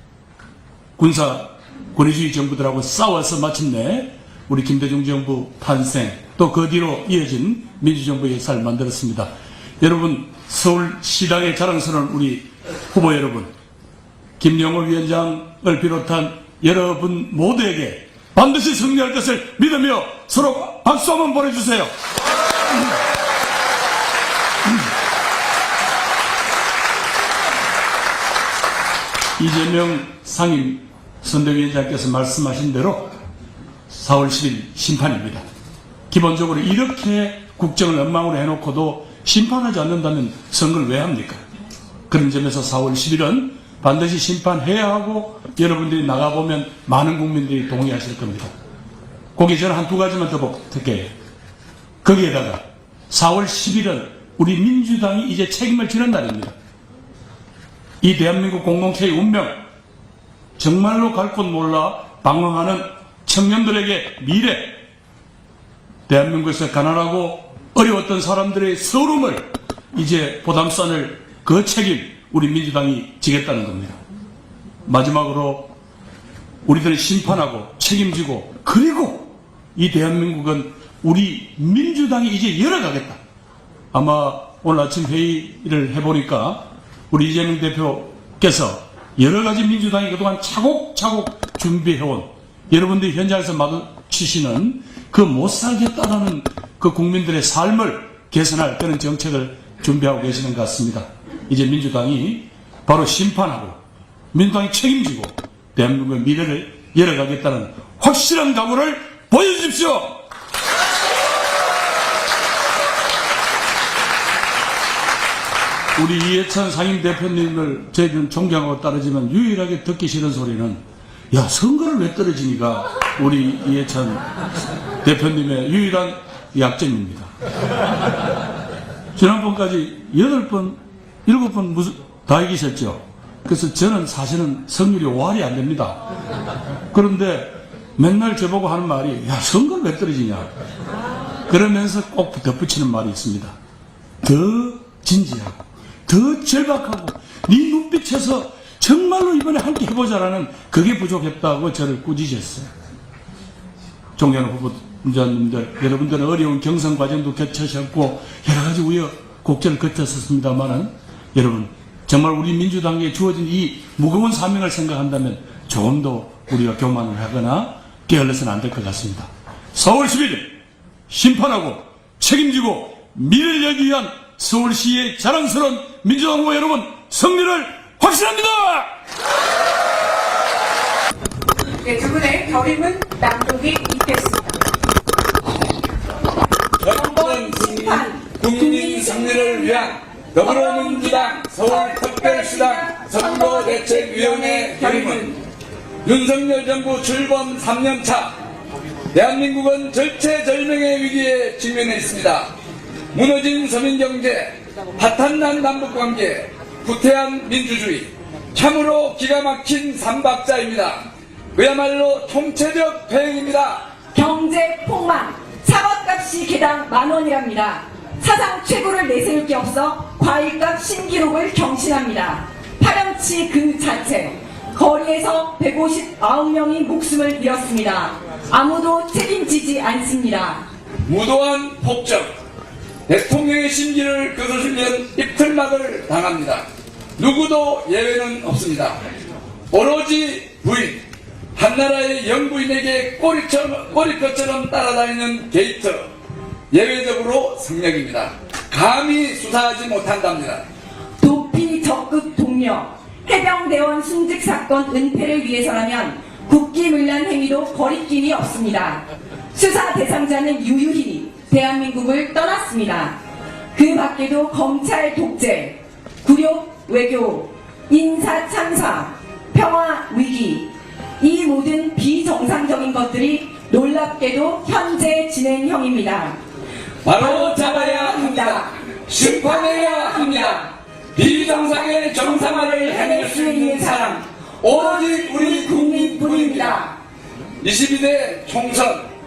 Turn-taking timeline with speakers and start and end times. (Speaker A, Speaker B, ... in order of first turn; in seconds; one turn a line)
Speaker A: 1.0-9.3
Speaker A: 9.8-13.5
Speaker A: 14.4-21.9
Speaker A: 29.4-33.1
Speaker A: 33.9-35.4
Speaker A: 36.1-41.4
Speaker A: 42.1-48.5
Speaker A: 49.4-51.1
Speaker A: 52.0-56.5
Speaker A: 58.0-59.6
Speaker A: 60.6-64.8
Speaker A: 66.1-74.0
Speaker A: 74.9-75.7
Speaker A: 76.6-83.2
Speaker A: 83.9-103.8
Speaker A: 104.3-110.2
Speaker A: 116.0-124.2
Speaker A: 125.0-127.3
Speaker A: 129.2-136.0
Speaker A: 136.9-140.5
Speaker A: 141.5-143.5
Speaker A: 144.2-152.7
Speaker A: 154.2-170.5
Speaker A: 171.1-178.9
Speaker B: 181.7-184.6
Speaker C: 186.8-195.4
Speaker D: 186.9-195.3
Speaker C: 196.0-198.3
Speaker C: 199.1-202.5
Speaker C: 203.1-213.8
Speaker D: 214.1-230.6
Speaker C: 231.1-232.3
Speaker C: 233.1-236.7
Speaker C: 237.2-239.0
Speaker C: 239.7-241.0
Speaker C: 241.5-246.1
Speaker C: 246.7-250.7
Speaker D: 251.2-263.1
Speaker D: 263.7-276.4
Speaker C: 277.0-280.6
Speaker D: 277.1-286.9
Speaker C: 281.2-286.8
Speaker C: 287.6-289.1